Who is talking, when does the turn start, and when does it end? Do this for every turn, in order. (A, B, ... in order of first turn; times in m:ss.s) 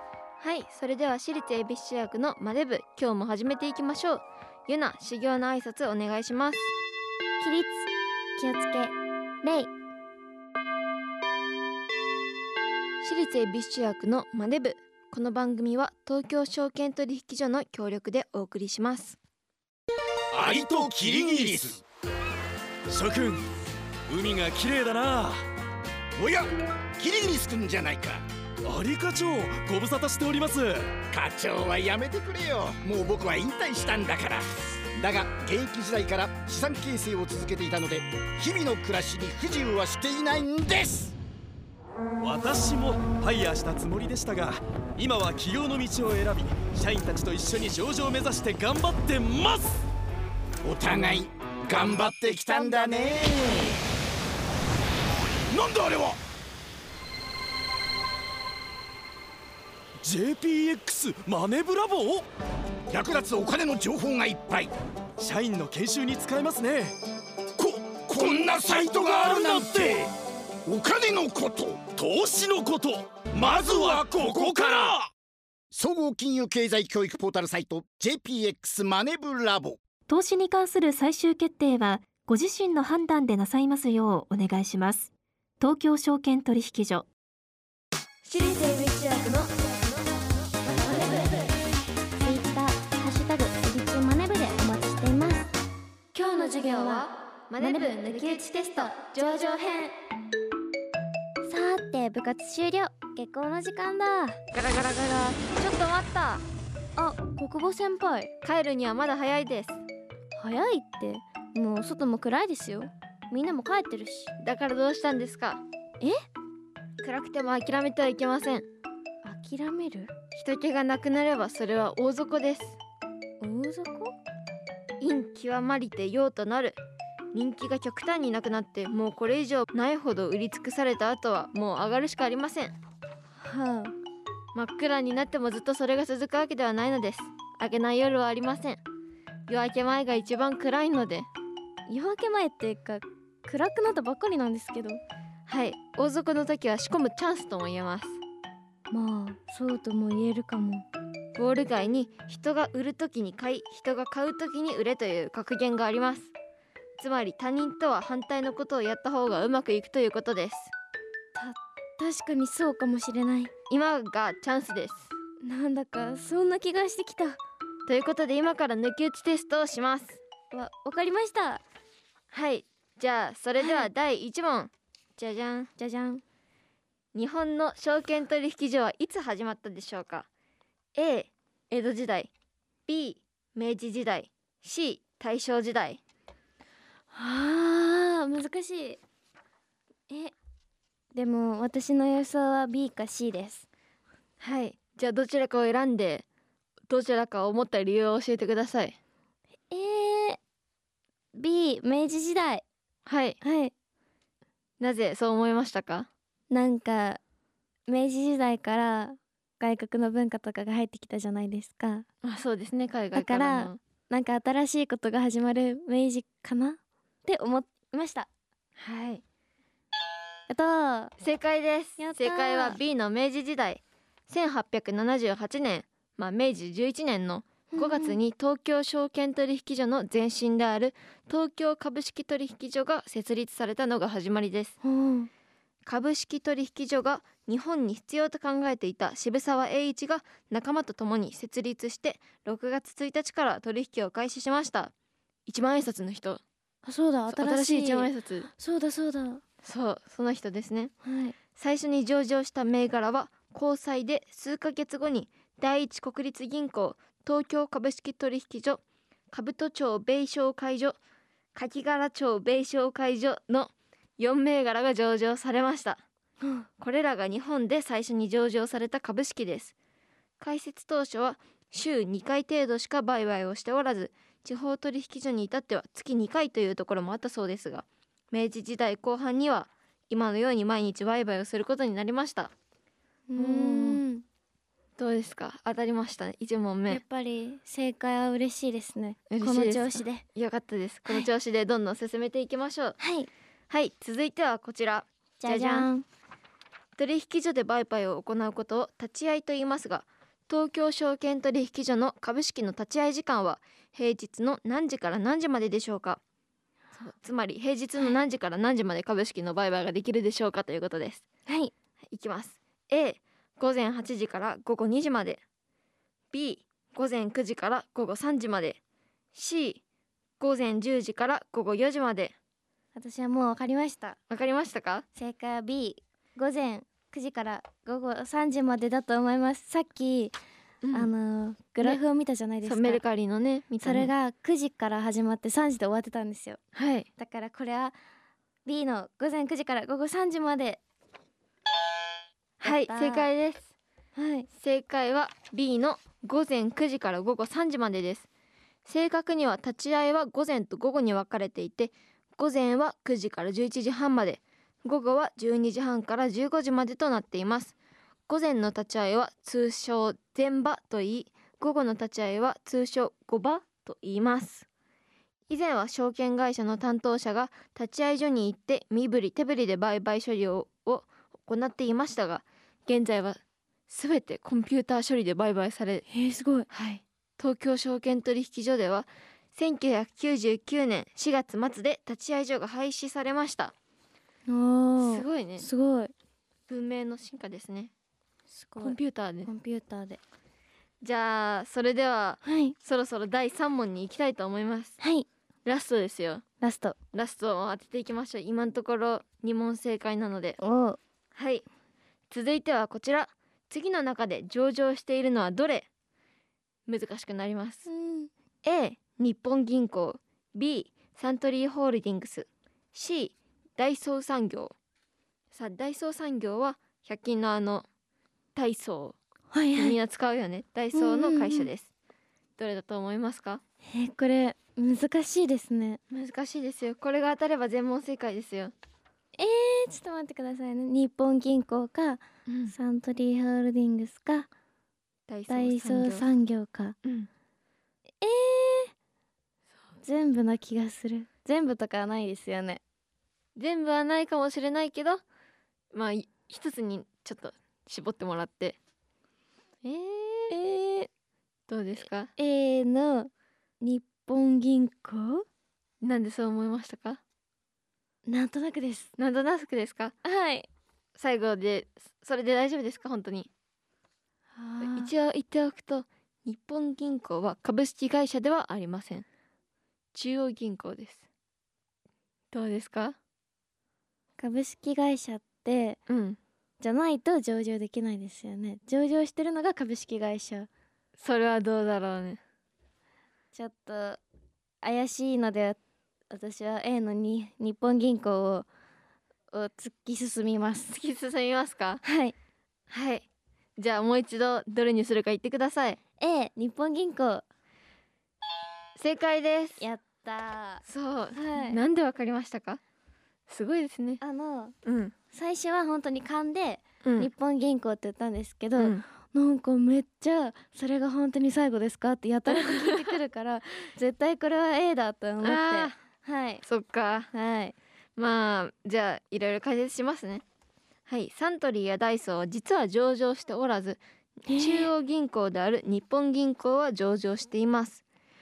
0:00.4-0:06.7 A
0:07.4-0:09.7 B
0:13.0-0:19.2 A
0:20.3-0:21.8 C
0:20.4-0:21.6 D
0:22.9-0:23.4 D
0:24.1-0:25.4 D
0:26.2-0:28.2 C
0:28.6-0:30.9 D
0:31.1-0:41.1 C
0:42.2-0:49.8 D
0:50.6-0:53.8 C
0:55.5-0:56.2 C
1:00.0-1:02.2 D
1:02.9-1:04.7 C
1:05.2-1:06.9 D
1:07.6-1:10.1 C
1:08.7-1:10.0 D
1:10.6-1:12.0 C
1:12.0-1:15.0 D
1:13.3-1:15.0 C
1:15.7-1:19.8 C
1:20.1-1:25.1 E
1:25.6-1:27.1 E
1:28.2-1:30.0 A
1:30.7-1:31.5 A
1:30.7-1:31.4 B
1:32.2-1:35.5 B
1:36.1-1:39.9 A
1:36.2-1:39.9 B
1:41.4-1:44.4 B
1:44.5-1:46.4 A
1:47.0-1:48.3 B
1:48.4-1:49.8 A
1:50.4-1:54.3 B
1:54.4-1:55.6 A
1:57.0-1:58.7 A
1:59.2-2:00.1 B
2:00.3-2:02.8 A
2:03.4-2:04.1 B
2:05.0-2:06.8 A
2:07.3-2:12.7 A
2:13.4-2:13.9 B
2:14.5-2:18.8 A
2:19.5-2:21.3 A
2:21.9-2:25.0 B
2:25.5-2:28.2 A
2:28.9-2:30.9 B
2:31.3-2:36.3 A
2:37.0-2:40.7 A
2:41.3-2:43.5 B
2:43.7-2:45.1 A
2:45.4-2:47.4 B
2:47.9-2:50.2 A
2:50.5-2:51.6 B
2:52.3-2:55.7 A
2:53.6-2:53.9 B
2:55.8-2:56.2 B
2:57.1-3:00.3 A
3:00.9-3:02.3 A
3:02.9-3:06.0 A
3:07.1-3:09.0 B
3:10.1-3:10.3 B
3:11.1-3:13.6 B
3:14.4-3:16.2 A
3:16.9-3:19.0 A
3:19.7-3:20.4 B
3:21.3-3:22.6 B
3:23.0-3:23.4 A
3:23.4-3:23.7 B
3:24.8-3:26.1 A
3:26.5-3:27.2 B
3:27.9-3:32.0 B
3:32.2-3:33.8 A
3:33.1-3:38.3 B
3:38.8-3:39.2 A
3:40.5-3:41.1 B
3:41.2-3:54.8 A
3:42.0-3:42.8 B
3:47.7-3:48.2 B
3:54.8-3:55.3 B
3:55.8-4:04.9 A
4:05.5-4:06.4 A
4:06.8-4:09.4 B
4:07.3-4:08.5 A
4:09.6-4:10.9 A
4:11.0-4:11.4 B
4:11.5-4:18.8 A
4:19.3-4:21.0 A
4:21.5-4:26.0 A
4:26.8-4:29.7 A
4:30.4-4:42.5 A
4:43.3-4:44.2 B
4:43.4-4:44.0 A
4:45.0-4:47.0 A
4:46.9-4:50.2 B
4:49.3-4:53.0 A
4:53.0-4:53.3 B
4:53.7-4:55.9 A
4:55.4-4:56.0 B
4:57.0-5:06.2 A
5:06.9-5:11.2 A
5:11.5-5:11.7 B
5:12.1-5:15.4 A
5:16.3-5:18.8 A
5:19.3-5:19.8 A
5:20.4-5:22.3 A
5:22.9-5:24.2 B
5:24.3-5:25.0 A
5:25.1-5:30.4 B
5:30.8-5:31.1 A
5:30.9-5:33.0 B
5:32.6-5:34.1 A
5:33.8-5:36.6 B
5:36.7-5:37.1 A
5:37.2-5:38.0 B
5:38.6-5:40.8 B
5:42.6-5:43.7 A
5:42.6-5:43.3 B
5:44.1-5:44.5 B
5:44.5-5:48.3 A
5:48.8-5:57.8 A
5:58.3-6:04.6 A
6:05.5-6:16.0 A
6:16.1-6:16.6 B
6:16.7-6:23.7 A
6:24.5-6:26.1 B
6:25.0-6:25.7 A
6:26.7-6:27.9 A
6:28.5-6:30.2 B
6:28.8-6:29.5 A
6:31.0-6:35.0 A
6:32.4-6:32.8 B
6:35.0-6:35.3 B
6:35.6-6:36.4 A
6:36.6-6:37.0 B
6:37.1-6:40.6 A
6:40.6-6:41.0 B
6:41.3-6:41.6 A
6:42.3-6:45.9 A
6:46.9-6:47.9 A
6:47.9-6:48.3 B
6:48.6-6:54.7 A
6:55.5-6:57.9 A
6:58.5-6:59.2 A
6:59.5-7:00.0 B
6:59.7-7:01.9 A
7:00.9-7:01.7 B
7:02.6-7:03.6 A
7:03.9-7:06.0 B
7:06.1-7:08.7 A
7:09.4-7:14.5 B
7:12.5-7:12.8 A
7:15.3-7:16.2 A
7:15.5-7:17.0 B
7:17.0-7:17.3 A
7:18.2-7:18.9 B
7:20.0-7:22.8 B
7:23.6-7:25.2 A
7:25.9-7:28.8 A
7:29.8-7:30.5 A
7:30.5-7:31.1 B
7:31.7-7:32.3 A
7:32.4-7:35.4 B
7:36.0-7:37.2 A
7:38.2-7:39.1 B
7:39.2-7:40.2 A
7:40.2-7:40.7 B
7:41.2-7:43.5 A
7:44.5-7:45.1 B
7:44.8-7:49.2 A
7:50.1-7:51.2 A
7:52.5-7:53.2 A
7:54.4-7:56.0 B
7:56.1-7:56.4 A
7:56.8-8:00.7 B
8:01.2-8:02.4 A
8:03.5-8:04.2 B
8:04.8-8:05.8 B
8:06.3-8:08.7 B
8:09.5-8:10.9 B
8:10.9-8:12.0 A
8:12.0-8:12.3 B
8:12.9-8:13.2 A
8:13.8-8:16.0 A
8:16.2-8:17.4 B
8:19.0-8:19.8 A
8:19.8-8:20.8 B
8:20.8-8:22.8 A
8:21.3-8:21.8 B
8:23.5-8:24.2 A
8:24.2-8:24.7 B
8:24.8-8:25.1 A
8:25.3-8:36.6 B
8:27.0-8:27.3 A
8:28.8-8:29.0 A
8:32.5-8:33.2 A
8:35.4-8:35.9 A
8:36.6-8:37.3 A
8:37.3-8:37.7 B
8:38.2-8:40.4 A
8:41.1-8:48.0 A
8:44.5-8:44.9 B